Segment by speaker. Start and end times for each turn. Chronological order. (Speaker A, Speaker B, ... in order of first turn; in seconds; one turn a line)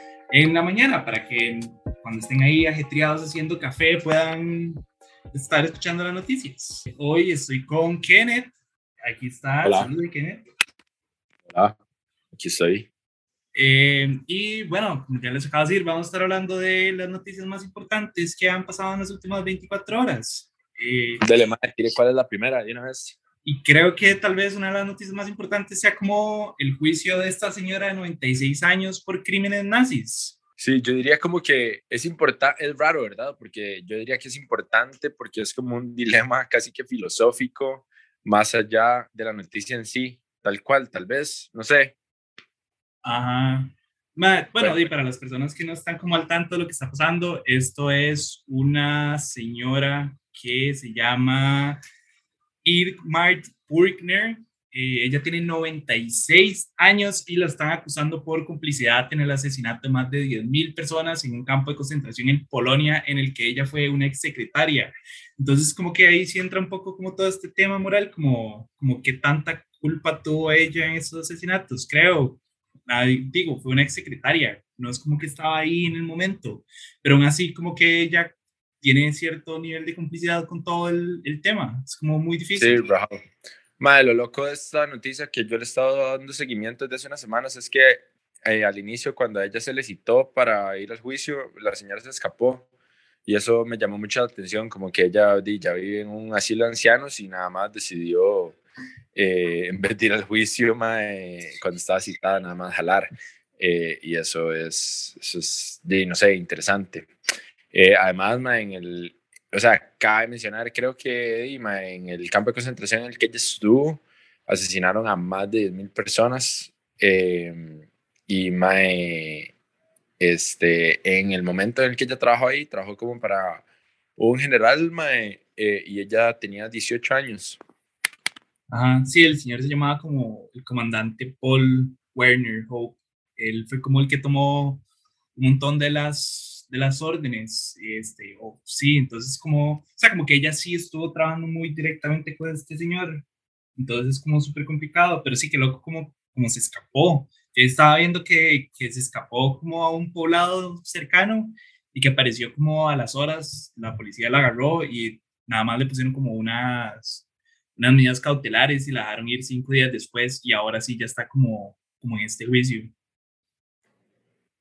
Speaker A: 0.3-8.5
Speaker A: 9.1-10.4
Speaker B: 9.6-9.9
Speaker B: 11.5-11.8
Speaker B: 12.3-12.9
Speaker A: 13.6-21.2
Speaker B: 21.2-23.2
Speaker A: 23.4-30.4
Speaker B: 30.6-42.0
Speaker A: 43.0-51.8
Speaker B: 44.6-44.9
Speaker A: 52.6-82.9
Speaker B: 82.6-83.2
Speaker B: 83.8-92.7
Speaker B: 93.2-98.6
Speaker B: 99.1-103.1
Speaker B: 103.6-107.1
Speaker B: 107.7-119.5
Speaker B: 120.2-123.6
Speaker B: 124.2-127.6
Speaker A: 128.7-134.8
Speaker A: 135.3-143.2
Speaker A: 143.8-157.2
Speaker A: 157.8-162.9